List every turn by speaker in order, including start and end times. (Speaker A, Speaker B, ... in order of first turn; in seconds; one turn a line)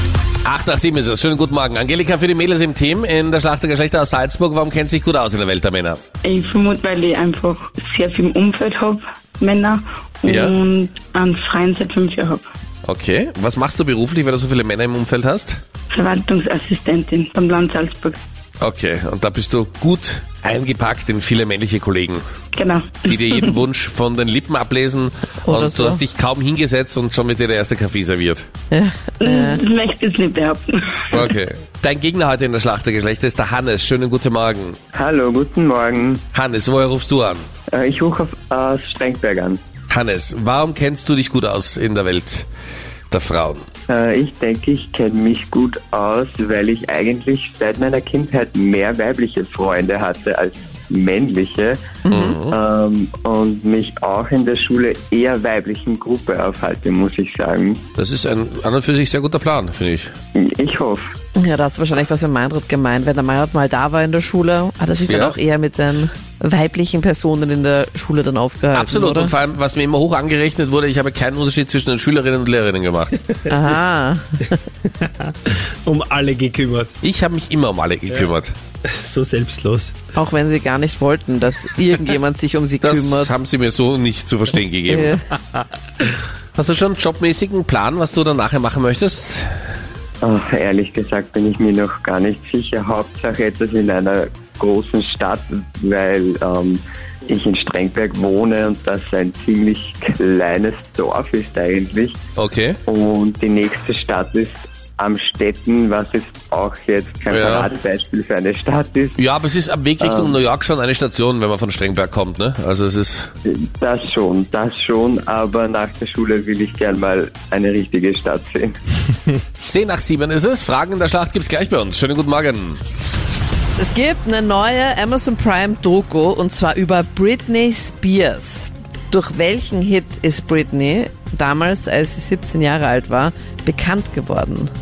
Speaker A: 0.5-6.0
Speaker B: 6.2-12.4
Speaker A: 10.3-10.6
Speaker A: 12.8-15.6
Speaker B: 15.9-18.2
Speaker A: 18.6-22.2
Speaker B: 22.5-23.5
Speaker A: 23.1-28.5
Speaker C: 25.4-26.0
Speaker C: 28.7-29.6
Speaker B: 29.2-31.2
Speaker A: 31.1-34.8
Speaker D: 34.9-36.2
Speaker A: 36.3-37.5
Speaker D: 37.7-39.6
Speaker A: 39.9-42.5
Speaker A: 43.1-43.7
Speaker D: 43.9-52.0
Speaker C: 52.1-52.4
Speaker A: 52.1-52.5
Speaker D: 52.5-57.8
Speaker A: 58.0-60.1
Speaker D: 60.4-61.1
Speaker C: 61.4-69.3
Speaker A: 65.1-65.4
Speaker A: 68.7-73.2
Speaker C: 73.5-74.6
Speaker E: 74.9-76.9
Speaker A: 77.0-78.5
Speaker E: 78.8-80.0
Speaker C: 80.2-83.3
Speaker A: 82.8-85.2
Speaker C: 84.9-85.3
Speaker A: 86.6-89.5
Speaker D: 90.2-102.2
Speaker A: 102.4-102.8
Speaker D: 102.9-109.2
Speaker A: 107.3-107.7
Speaker A: 109.2-113.3
Speaker D: 110.0-110.4
Speaker D: 113.5-118.8
Speaker A: 119.6-122.8
Speaker C: 123.8-134.7